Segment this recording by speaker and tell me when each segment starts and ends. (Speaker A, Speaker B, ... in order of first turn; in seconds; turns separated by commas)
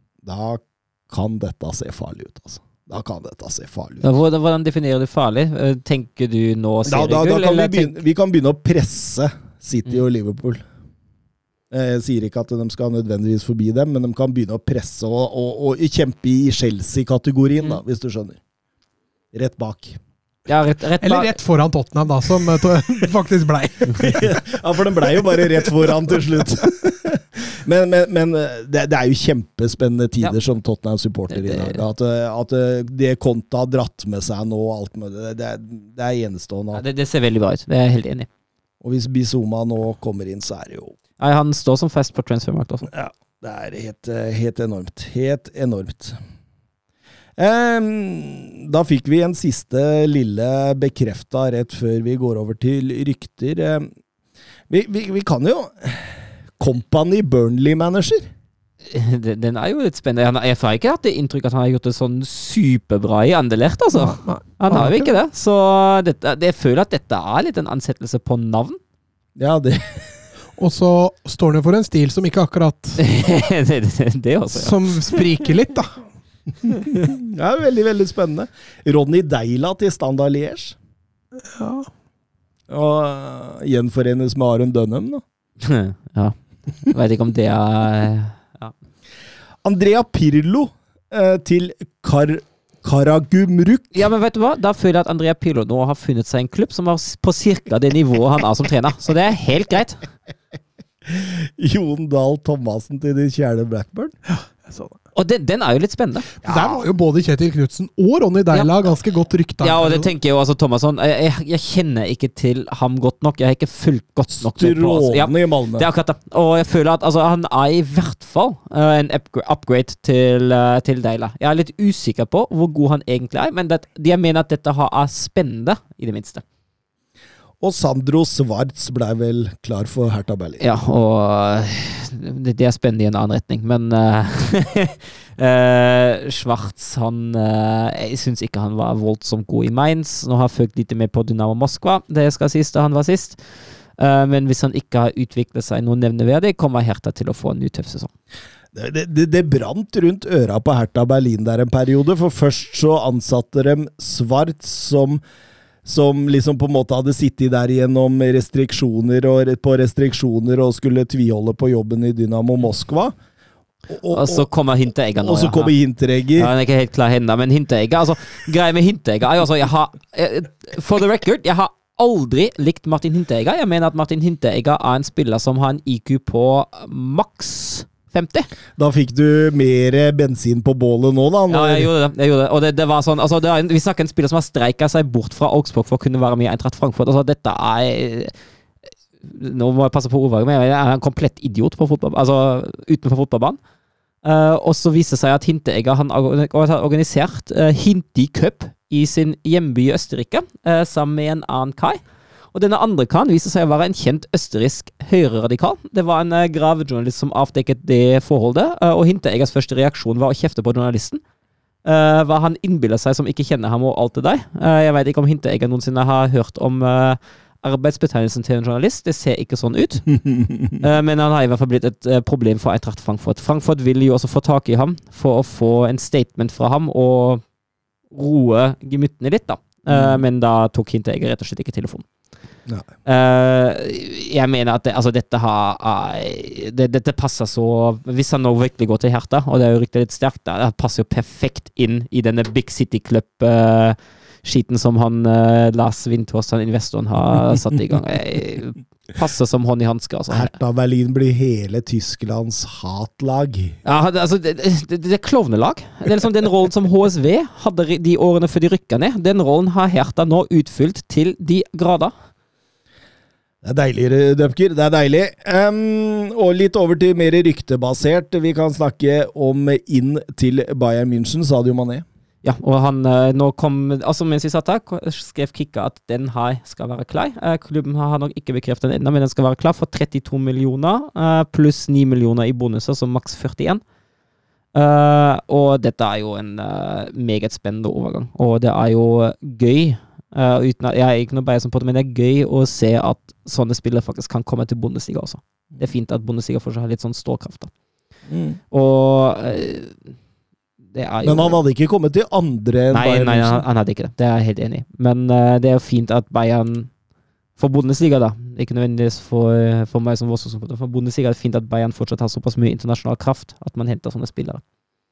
Speaker A: 0.2-4.1, Speaker B: 4.0-8.0, Speaker A: 6.8-10.6, Speaker A: 11.7-18.4, Speaker A: 19.3-20.0, Speaker B: 20.4-21.3, Speaker C: 21.0-24.4, Speaker A: 23.9-36.8, Speaker C: 25.2-25.7, Speaker B: 31.3-31.8, Speaker B: 36.7-38.3, Speaker A: 38.8-40.9, Speaker B: 41.2-42.9, Speaker A: 42.9-46.2, Speaker A: 47.4-53.9, Speaker A: 54.7-58.3, Speaker B: 58.8-68.8, Speaker C: 63.9-65.1, Speaker A: 69.4-70.2, Speaker C: 70.6-73.0, Speaker B: 73.0-75.2, Speaker C: 74.5-76.0, Speaker A: 76.9-80.8, Speaker C: 81.5-81.9, Speaker A: 82.7-85.2, Speaker B: 85.6-86.3, Speaker B: 86.9-88.7, Speaker A: 89.6-94.1, Speaker B: 93.9-100.0, Speaker A: 101.0-104.1, Speaker C: 104.3-105.0, Speaker B: 105.1-106.3, Speaker A: 106.4-106.8, Speaker C: 106.4-110.1, Speaker B: 109.6-126.4, Speaker A: 114.4-115.9, Speaker A: 127.6-130.6, Speaker B: 130.6-143.4, Speaker B: 144.0-148.1, Speaker A: 148.7-155.2, Speaker A: 155.8-163.1, Speaker A: 163.9-164.5, Speaker B: 164.1-165.7, Speaker A: 165.2-166.5, Speaker B: 166.3-178.5, Speaker A: 178.8-181.9, Speaker B: 181.5-188.3, Speaker B: 189.2-193.6, Speaker B: 194.2-202.0, Speaker B: 202.5-211.2, Speaker B: 211.8-220.1, Speaker A: 220.2-220.8, Speaker B: 220.8-227.4, Speaker B: 228.1-232.1, Speaker A: 229.9-230.2, Speaker B: 233.0-250.5, Speaker A: 250.3-253.8, Speaker B: 253.8-262.1, Speaker A: 263.6-272.0, Speaker B: 272.4-283.8, Speaker B: 284.7-297.7, Speaker A: 298.3-298.6, Speaker B: 298.7-300.1, Speaker B: 300.9-301.6, Speaker A: 301.2-303.6, Speaker B: 302.9-306.9, Speaker B: 307.6-314.6